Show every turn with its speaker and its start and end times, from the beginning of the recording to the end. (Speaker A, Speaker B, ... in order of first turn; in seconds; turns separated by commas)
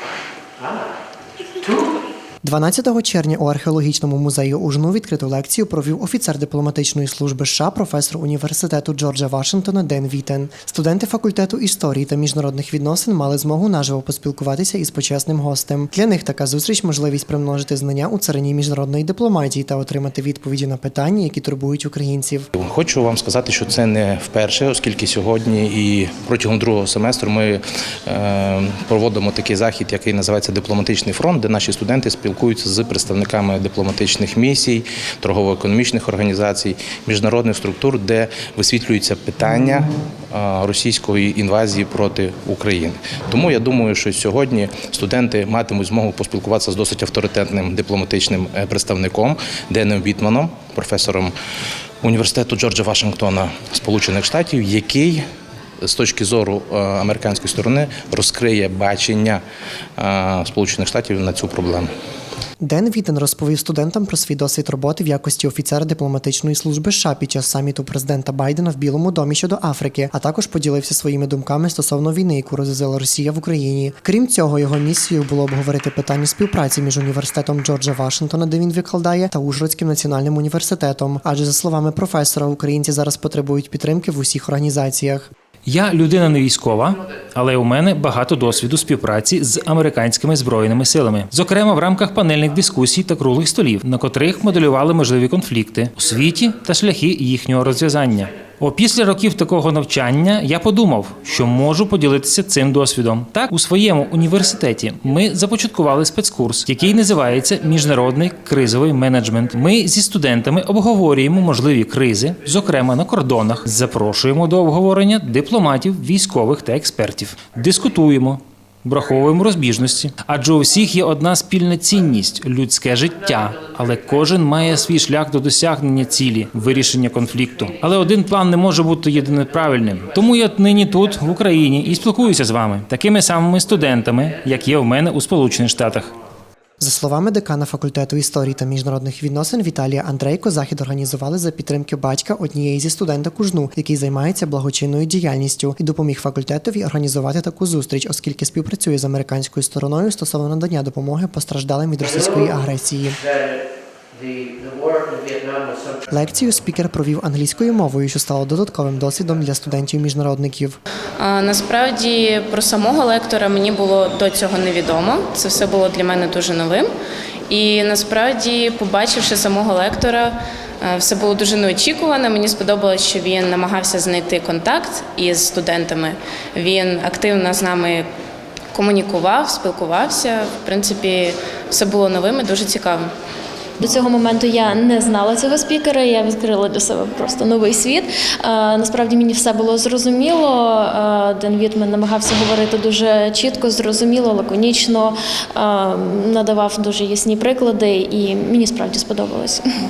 Speaker A: 0.6-0.9, Speaker A: 1.6-1.9, Speaker B: 2.4-22.5, Speaker C: 22.6-51.3, Speaker C: 52.0-55.2, Speaker C: 55.8-59.4, Speaker C: 60.0-61.9, Speaker B: 62.6-85.3, Speaker D: 85.7-136.1, Speaker A: 123.1-125.0, Speaker A: 126.5-128.3, Speaker A: 129.0-132.4, Speaker A: 133.6-134.8, Speaker B: 136.8-153.2, Speaker A: 152.0-152.5, Speaker A: 153.2-156.0, Speaker B: 156.1-160.8, Speaker E: 161.2-166.9, Speaker E: 167.5-178.1, Speaker E: 178.7-183.1, Speaker F: 183.8-199.6